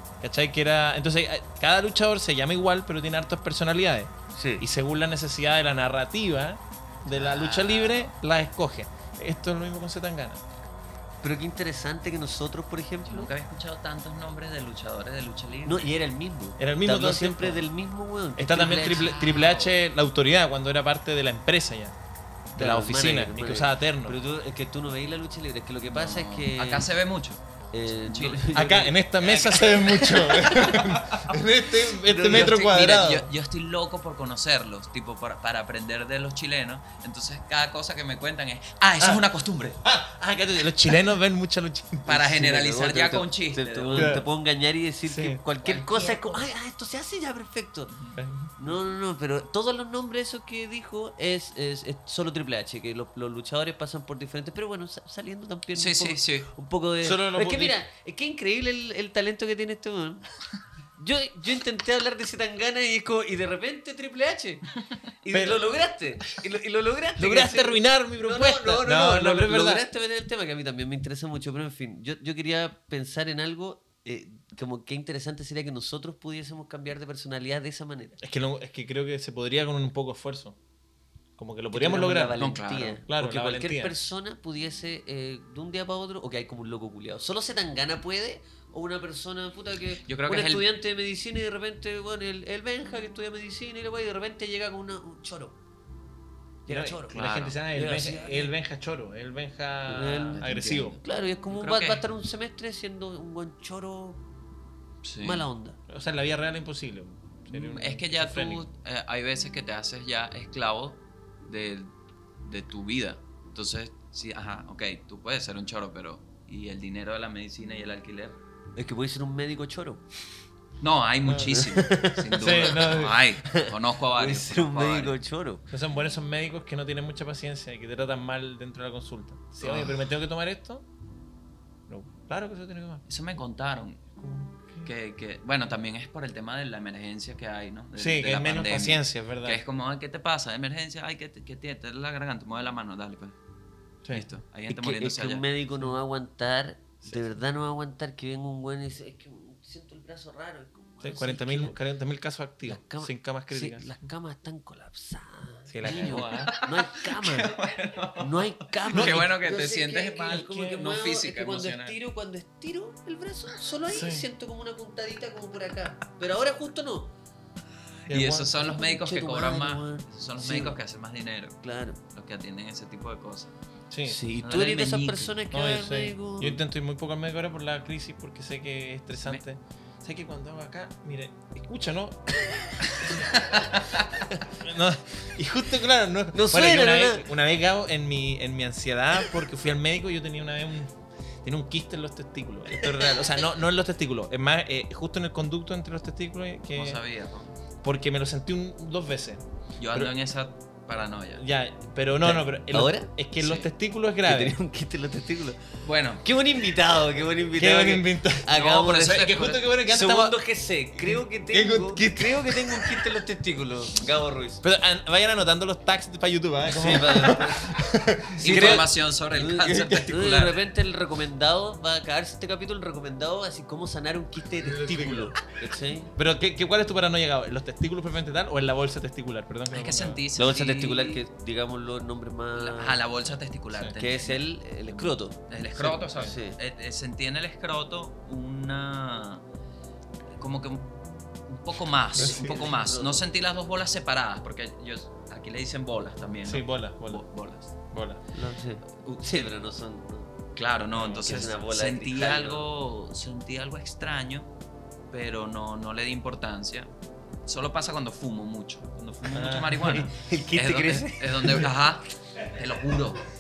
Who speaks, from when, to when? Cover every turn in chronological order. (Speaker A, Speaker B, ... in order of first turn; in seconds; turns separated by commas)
Speaker A: 0.2-10.4, Speaker B: 4.3-4.7, Speaker C: 7.1-8.1, Speaker B: 11.2-13.3, Speaker C: 13.1-15.9, Speaker B: 15.7-19.2, Speaker A: 16.6-17.6, Speaker A: 18.4-22.0, Speaker C: 18.6-19.8, Speaker A: 22.5-24.2, Speaker B: 22.6-26.9, Speaker C: 25.8-28.6, Speaker B: 27.7-29.9, Speaker A: 28.5-33.3, Speaker C: 29.4-31.3, Speaker B: 32.0-32.5, Speaker C: 32.2-39.8, Speaker A: 39.0-39.2, Speaker A: 39.8-42.1, Speaker C: 42.1-44.2, Speaker B: 42.1-48.0, Speaker A: 43.9-44.3, Speaker A: 45.0-46.1, Speaker C: 45.6-46.4, Speaker A: 48.1-48.5, Speaker B: 48.6-60.3, Speaker C: 55.7-56.5, Speaker A: 57.0-57.8, Speaker B: 61.0-64.7, Speaker B: 65.2-78.2, Speaker A: 65.3-65.6, Speaker A: 67.2-69.8, Speaker A: 78.2-80.6, Speaker A: 81.4-82.4, Speaker B: 81.7-95.6, Speaker C: 82.4-83.0, Speaker A: 83.1-84.0, Speaker C: 90.1-90.7, Speaker B: 96.7-98.5, Speaker A: 96.7-101.0, Speaker C: 97.1-97.5, Speaker B: 99.9-100.5, Speaker C: 100.3-101.0, Speaker B: 101.0-104.2, Speaker C: 101.5-102.0, Speaker C: 105.0-105.5, Speaker B: 105.2-105.8, Speaker A: 105.9-108.6, Speaker C: 107.5-118.4, Speaker B: 118.8-120.0, Speaker C: 120.8-125.2, Speaker A: 121.2-121.6, Speaker B: 121.5-122.7, Speaker A: 122.4-123.2, Speaker B: 123.4-125.7, Speaker A: 125.7-130.9, Speaker C: 129.6-130.0, Speaker A: 131.9-133.0, Speaker C: 133.1-143.3, Speaker A: 134.6-134.9, Speaker A: 138.0-139.6, Speaker C: 144.1-145.5, Speaker B: 144.7-151.8, Speaker A: 147.0-147.3, Speaker A: 151.0-154.0, Speaker B: 152.7-157.6, Speaker A: 155.7-156.6, Speaker C: 155.8-162.0, Speaker B: 158.2-167.1, Speaker A: 158.9-159.3, Speaker A: 160.3-160.8, Speaker A: 163.9-164.2, Speaker A: 168.1-168.5, Speaker C: 168.1-171.6, Speaker B: 168.6-170.8, Speaker B: 171.6-172.0, Speaker C: 172.1-173.6, Speaker A: 173.9-174.2, Speaker B: 174.1-176.6, Speaker C: 174.4-175.3, Speaker A: 175.5-182.4, Speaker C: 183.3-184.1, Speaker A: 184.5-190.9, Speaker B: 186.3-187.3, Speaker A: 191.4-197.0, Speaker C: 196.7-197.6, Speaker A: 197.8-200.1, Speaker C: 199.8-201.4, Speaker A: 201.4-204.6, Speaker B: 202.2-203.1, Speaker C: 203.4-203.7, Speaker B: 204.2-205.6, Speaker C: 205.8-206.3, Speaker B: 206.2-209.3, Speaker A: 207.6-210.4, Speaker C: 208.5-209.8, Speaker B: 209.9-214.6, Speaker A: 211.0-213.2, Speaker A: 214.6-218.9, Speaker B: 216.7-226.1, Speaker C: 218.4-220.7, Speaker A: 224.6-225.3, Speaker A: 226.2-230.2, Speaker C: 229.7-231.2, Speaker B: 230.4-233.0, Speaker C: 232.6-239.4, Speaker B: 234.0-235.4, Speaker A: 235.8-236.3, Speaker B: 236.2-236.6, Speaker C: 240.4-247.7, Speaker B: 242.1-243.2, Speaker A: 242.2-242.7, Speaker A: 246.5-247.2, Speaker A: 247.9-248.2, Speaker B: 248.3-250.3, Speaker C: 249.0-249.5, Speaker C: 250.6-254.5, Speaker A: 251.0-251.3, Speaker B: 251.0-252.7, Speaker C: 255.1-256.9, Speaker C: 257.4-263.2, Speaker A: 259.3-260.1, Speaker B: 259.8-261.7